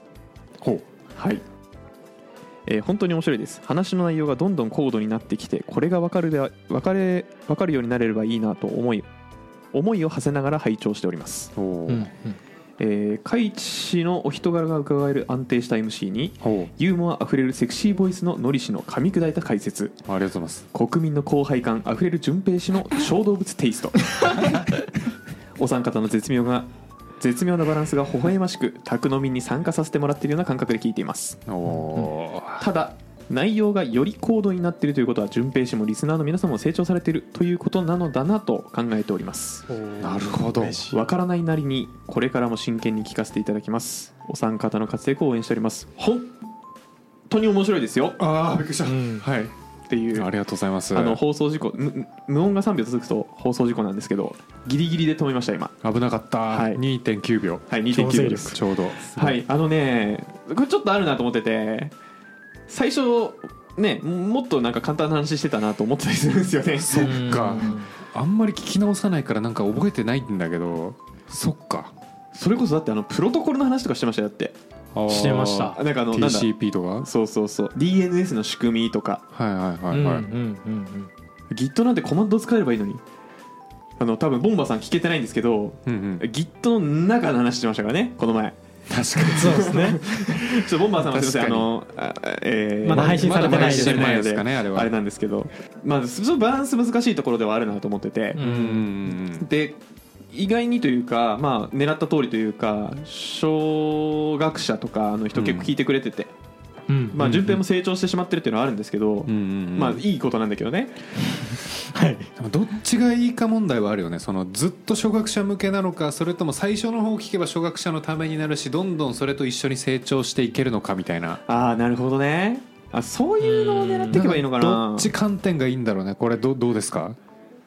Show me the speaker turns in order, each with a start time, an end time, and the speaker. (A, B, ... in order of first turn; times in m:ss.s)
0:00.6-0:00.8 A
0:01.2-0:01.4 B
0:02.6-0:09.1 B
0:09.7-0:11.5 B
0:11.6-0:12.1 A
0:11.9-0:12.4 C
0:12.8-0:20.0 B
0:16.4-0:16.7 A
0:20.0-0:20.7 A
0:20.7-0:24.5 B
0:25.6-0:26.7 B
0:27.2-0:31.4 B
0:31.4-0:32.6 A
0:32.6-0:39.7 B
0:39.7-0:41.0 C
0:40.0-0:40.9 A
0:40.9-0:46.3 B
0:47.3-0:48.2 B
0:48.2-0:49.5 A
0:48.8-0:49.2 C
0:49.9-0:50.3 B
0:50.1-0:51.2 A
0:50.9-0:55.7 B
0:55.8-0:57.7 A
0:56.5-0:56.8 B
0:57.7-0:58.6 B
0:57.9-0:58.6 C
0:58.2-0:59.4 A
0:59.1-1:01.9 B
1:02.7-1:07.3 B
1:06.7-1:11.9 A
1:07.0-1:07.9 C
1:12.3-1:14.6 B
1:14.9-1:17.1 A
1:15.1-1:15.8 C
1:15.7-1:16.5 B
1:17.0-1:19.2 B
1:19.3-1:20.2 A
1:19.9-1:21.1 C
1:21.5-1:23.0 B
1:24.0-1:28.6 B
1:25.8-1:26.2 A
1:28.9-1:29.8 A
1:29.1-1:38.4 B
1:29.3-1:30.5 C
1:31.0-1:31.7 A
1:32.8-1:34.0 C
1:32.9-1:34.9 A
1:38.4-1:39.1 C
1:38.4-1:39.5 A
1:39.4-1:39.8 B
1:40.3-1:46.3 B
1:45.3-1:45.7 A
1:46.9-1:47.2 C
1:47.1-1:50.9 B
1:47.2-1:47.6 A
1:49.2-1:50.0 A
1:51.4-1:52.3 C
1:52.4-2:01.4 A
2:01.5-2:05.1 B
2:03.4-2:04.3 C
2:04.1-2:07.2 A